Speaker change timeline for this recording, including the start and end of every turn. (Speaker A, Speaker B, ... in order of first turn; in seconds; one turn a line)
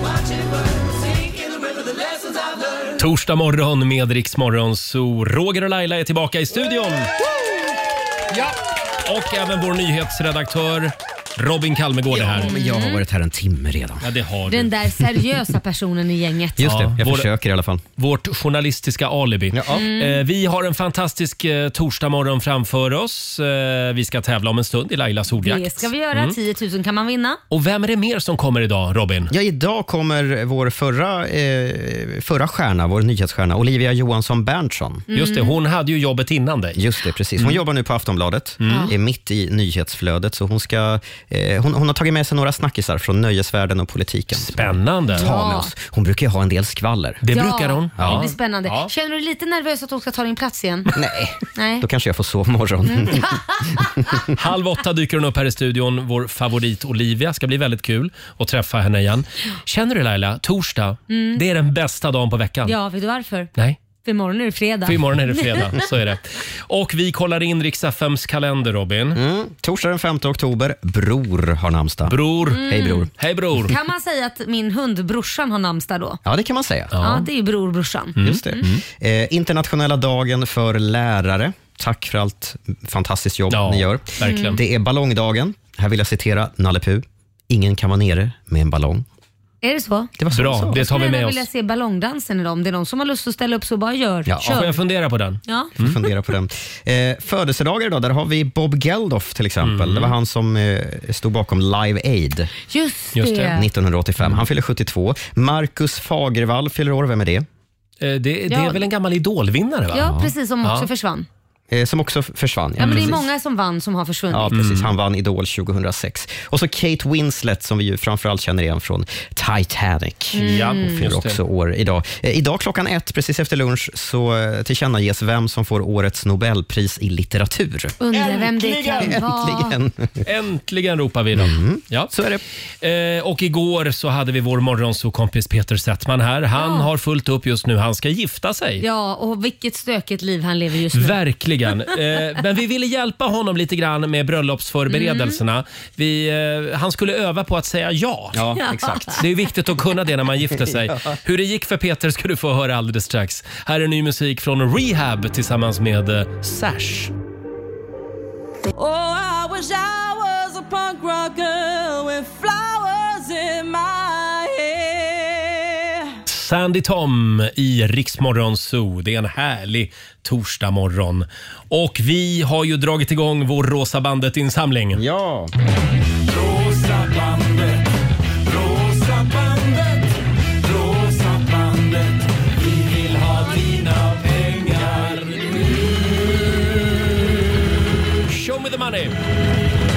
Speaker A: 3.0-7.1
Speaker A: 9.0-12.5
Speaker B: 12.1-14.1
Speaker C: 12.4-13.0
Speaker A: 14.0-14.7
Speaker C: 14.5-16.7
Speaker B: 16.6-17.8
Speaker A: 16.6-17.3
Speaker A: 18.0-26.4
Speaker B: 19.5-19.8
Speaker C: 19.7-20.2
Speaker C: 25.4-27.4
Speaker A: 27.5-29.3
Speaker B: 29.3-35.0
Speaker C: 35.1-35.5
Speaker A: 35.1-36.8
Speaker B: 36.8-47.2
Speaker A: 38.6-38.9
Speaker C: 38.7-38.9
Speaker A: 44.4-45.3
Speaker C: 45.2-45.7
Speaker A: 47.2-48.9
Speaker C: 47.3-50.9
Speaker B: 48.0-48.3
Speaker B: 50.9-53.3
Speaker C: 51.5-51.9
Speaker C: 52.9-53.8
Speaker A: 54.4-62.8
Speaker C: 61.1-61.4
Speaker C: 62.6-63.5
Speaker C: 64.0-65.6
Speaker A: 64.9-69.2
Speaker B: 69.1-73.1
Speaker A: 72.1-73.7
Speaker C: 72.5-73.1
Speaker C: 73.7-76.2
Speaker B: 76.2-76.9
Speaker A: 76.9-77.3
Speaker C: 77.0-78.6
Speaker A: 78.2-78.8
Speaker B: 78.2-89.0
Speaker A: 83.5-84.6
Speaker C: 84.2-84.6
Speaker C: 89.6-90.1
Speaker B: 90.2-90.8
Speaker A: 90.3-91.5
Speaker C: 90.7-94.7
Speaker B: 94.3-94.6
Speaker A: 94.4-96.0
Speaker C: 95.5-95.7
Speaker B: 95.8-102.5
Speaker A: 99.6-100.2
Speaker C: 102.7-103.7
Speaker A: 103.2-103.6
Speaker B: 103.5-107.5
Speaker A: 108.0-110.9
Speaker C: 108.5-108.8
Speaker C: 109.9-111.3
Speaker B: 110.0-110.3
Speaker B: 111.7-113.2
Speaker A: 112.8-113.2
Speaker C: 112.8-114.5
Speaker B: 114.3-128.0
Speaker A: 114.5-114.9
Speaker C: 120.3-121.0
Speaker A: 120.4-121.4
Speaker C: 128.0-129.8
Speaker A: 128.1-129.1
Speaker B: 128.9-130.1
Speaker A: 130.2-132.1
Speaker B: 131.3-132.4
Speaker A: 132.8-138.8
Speaker C: 136.6-136.9
Speaker C: 138.8-141.2
Speaker A: 140.9-148.4
Speaker C: 144.9-145.4
Speaker B: 148.3-149.2
Speaker C: 148.6-149.2
Speaker A: 149.2-157.1
Speaker D: 158.7-165.5
Speaker A: 166.3-175.0
Speaker B: 174.9-175.5
Speaker E: 176.3-177.8
Speaker E: 178.4-185.2
Speaker A: 188.3-189.2